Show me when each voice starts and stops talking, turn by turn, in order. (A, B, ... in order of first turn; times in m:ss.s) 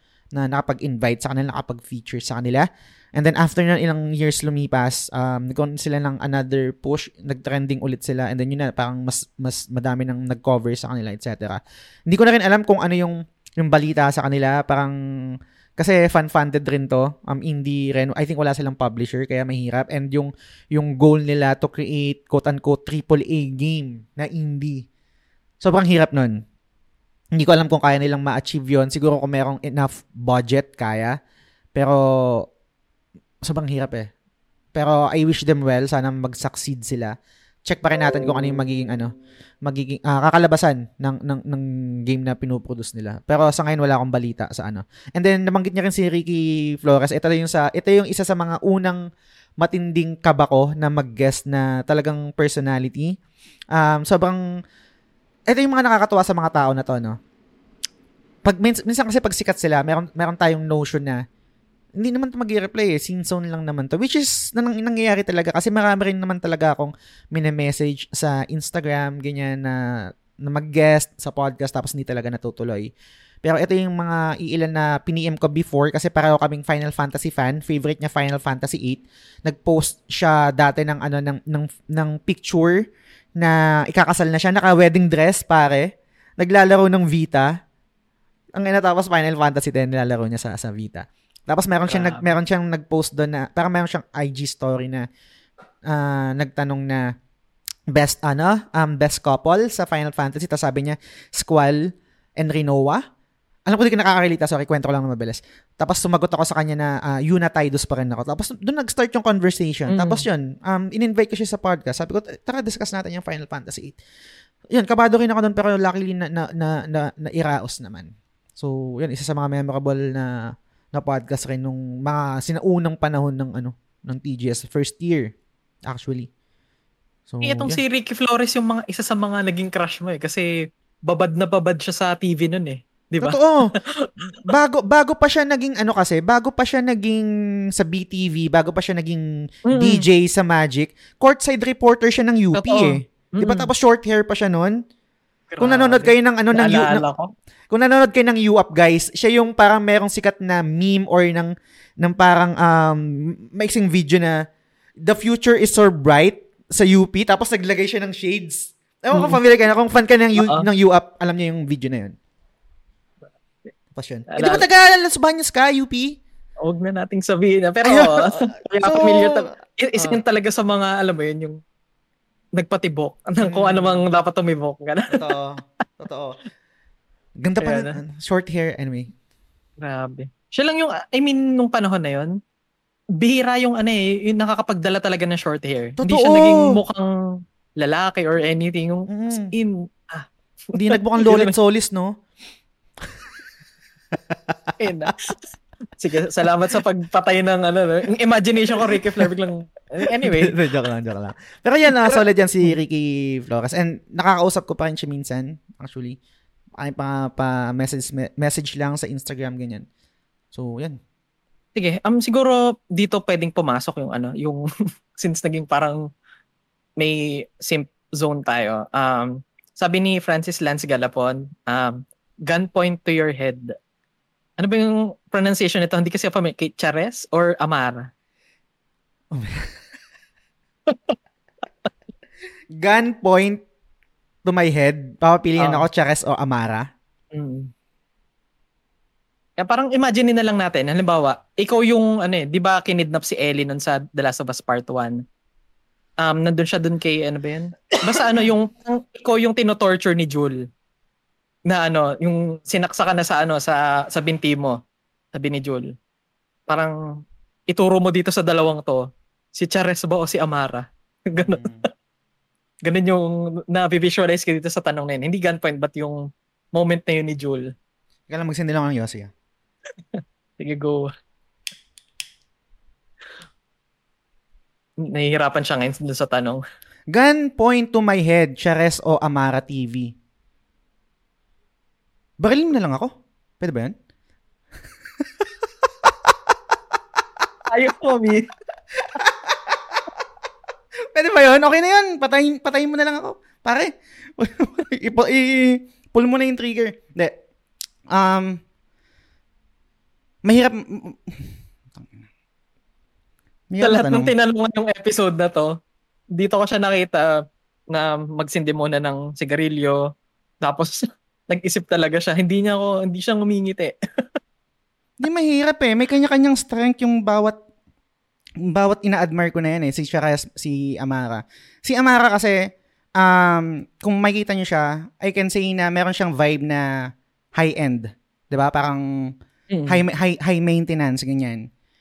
0:00.3-0:15.0 A
0:15.8-0:24.9 A
0:25.6-0:26.4 A
0:27.3-0:31.2 A
0:31.7-0:32.4 A
0:33.4-0:34.1 A
0:34.7-0:37.1 A
0:37.6-0:49.0 A
0:49.6-0:53.2 A
0:53.7-0:54.4 A
0:55.5-0:57.2 A
0:58.4-1:01.2 A
1:02.0-1:09.8 A
1:10.4-1:12.9 A
1:13.4-1:22.8 A
1:23.4-1:27.5 A
1:28.5-1:35.1 A
1:31.9-1:32.3 B
1:35.9-1:37.1 A
1:37.9-1:43.0 A
1:43.7-1:54.0 A
1:49.9-1:50.2 B
1:54.7-2:05.3 A
2:05.8-2:06.3 A
2:07.3-2:07.8 A
2:07.4-2:10.5 B
2:11.1-2:14.3 B
2:13.2-2:13.6 A
2:14.4-2:19.2 A
2:19.7-2:20.0 B
2:19.7-2:24.8 A
2:22.5-2:23.7 B
2:25.5-2:27.3 B
2:25.6-2:27.0 A
2:27.7-2:31.5 A
2:32.0-2:34.4 A
2:35.0-2:42.2 A
2:39.1-2:39.4 B
2:40.4-2:40.7 B
2:43.9-2:46.2 A
2:44.3-2:44.6 B
2:46.6-2:51.6 B
2:47.9-2:50.2 A
2:52.6-2:55.2 B
2:53.4-2:54.0 A
2:55.1-2:56.4 A
2:57.4-2:59.1 A
2:57.6-2:58.0 B
2:59.8-3:02.3 B
3:03.2-3:07.1 B
3:06.0-3:06.7 A
3:07.8-3:11.5 B
3:09.1-3:09.5 A
3:10.7-3:12.2 A
3:14.1-3:15.1 A
3:14.8-3:15.3 B
3:16.0-3:20.6 B
3:18.8-3:19.3 A
3:20.2-3:26.2 A
3:26.8-3:29.8 A
3:30.5-3:31.0 A
3:31.8-3:34.6 B
3:35.2-3:36.0 B
3:37.0-3:43.6 B
3:44.6-3:48.1 B
3:49.3-3:49.7 A
3:50.9-3:51.1 B
3:52.8-3:53.6 A
3:54.4-3:56.8 A
3:55.6-3:55.9 B
3:57.3-3:57.7 B
3:59.6-4:05.2 B
4:06.2-4:10.6 B
4:11.7-4:14.8 B
4:15.3-4:15.9 B
4:16.7-4:16.9 B
4:17.7-4:19.0 B
4:19.6-4:21.9 B
4:21.4-4:21.8 A
4:22.8-4:26.2 B
4:26.7-4:27.7 B
4:28.3-4:29.3 A
4:30.1-4:31.1 B
4:35.1-4:36.6 B
4:37.1-4:40.1 A
4:42.4-4:43.9 A
4:46.0-4:46.3 A
4:47.7-4:48.5 B
4:49.0-4:50.0 A
4:51.1-4:57.4 A
4:58.1-4:58.6 A
5:00.4-5:02.1 A
5:03.7-5:04.3 A
5:03.8-5:05.7 B
5:06.3-5:07.3 B
5:07.9-5:10.0 B
5:10.6-5:13.9 B
5:15.2-5:17.6 A
5:18.6-5:22.6 A
5:23.2-5:26.8 A
5:27.5-5:29.3 A
5:29.7-5:30.0 B
5:29.9-5:31.7 A